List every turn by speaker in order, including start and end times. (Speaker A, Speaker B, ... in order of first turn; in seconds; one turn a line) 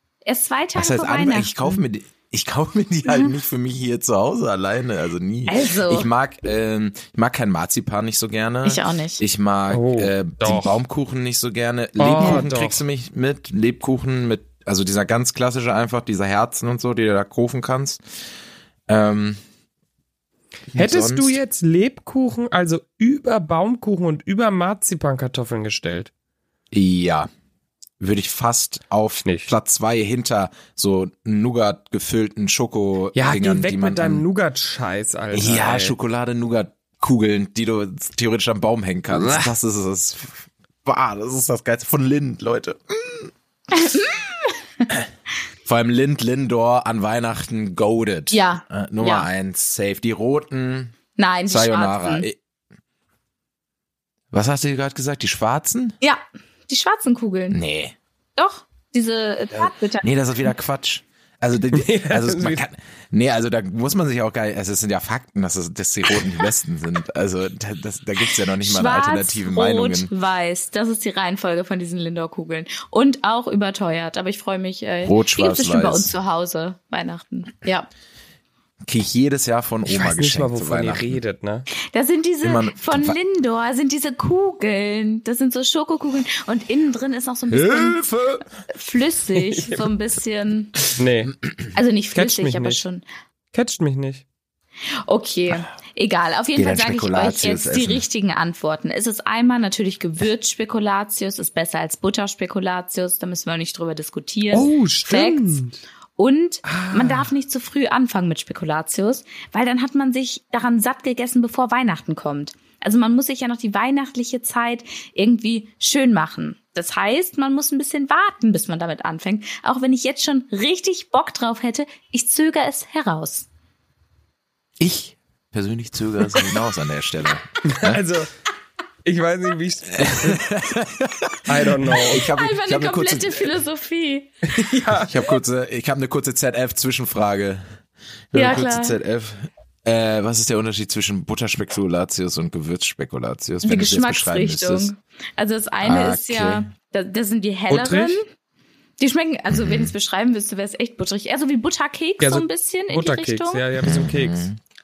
Speaker A: 0.2-1.8
Speaker B: 0.8-18.0
Speaker A: 5.5-6.1
Speaker A: 8.6-9.2
Speaker C: 9.7-10.8
Speaker C: 12.0-12.8
Speaker B: 18.9-19.4
Speaker B: 20.7-21.4
Speaker C: 20.7-26.1
Speaker B: 26.7-27.3
Speaker B: 28.0-34.2
Speaker C: 29.2-29.5
Speaker C: 33.1-35.9
Speaker B: 35.3-43.3
Speaker C: 39.1-39.4
Speaker A: 43.7-44.8
Speaker B: 45.6-50.9
Speaker A: 48.3-49.3
Speaker A: 51.2-52.2
Speaker B: 51.5-52.4
Speaker B: 54.3-56.0
Speaker A: 56.0-57.6
Speaker B: 57.5-58.0
Speaker A: 58.4-60.1
Speaker B: 59.5-70.1
Speaker C: 61.7-62.6
Speaker A: 68.6-77.9
Speaker B: 75.0-76.1
Speaker B: 78.9-81.2
Speaker C: 79.9-81.7
Speaker A: 81.8-88.0
Speaker B: 82.4-83.2
Speaker B: 87.5-88.5
Speaker A: 88.7-90.8
Speaker C: 89.3-89.9
Speaker C: 90.9-91.4
Speaker A: 91.7-93.0
Speaker C: 92.1-92.8
Speaker C: 93.5-94.2
Speaker A: 95.0-105.6
Speaker B: 96.5-98.0
Speaker C: 104.5-105.8
Speaker A: 106.2-123.5
Speaker C: 106.6-107.3
Speaker B: 124.8-128.0
Speaker C: 127.6-128.3
Speaker C: 129.0-130.4
Speaker B: 129.9-133.5
Speaker C: 131.5-132.3
Speaker A: 132.2-134.3
Speaker C: 134.5-135.2
Speaker B: 135.0-137.6
Speaker B: 138.3-144.9
Speaker A: 138.3-139.0
Speaker A: 143.6-148.3
Speaker B: 145.8-146.7
Speaker C: 147.7-148.2
Speaker A: 149.0-153.6
Speaker B: 149.5-149.9
Speaker C: 152.2-154.5
Speaker B: 153.8-154.6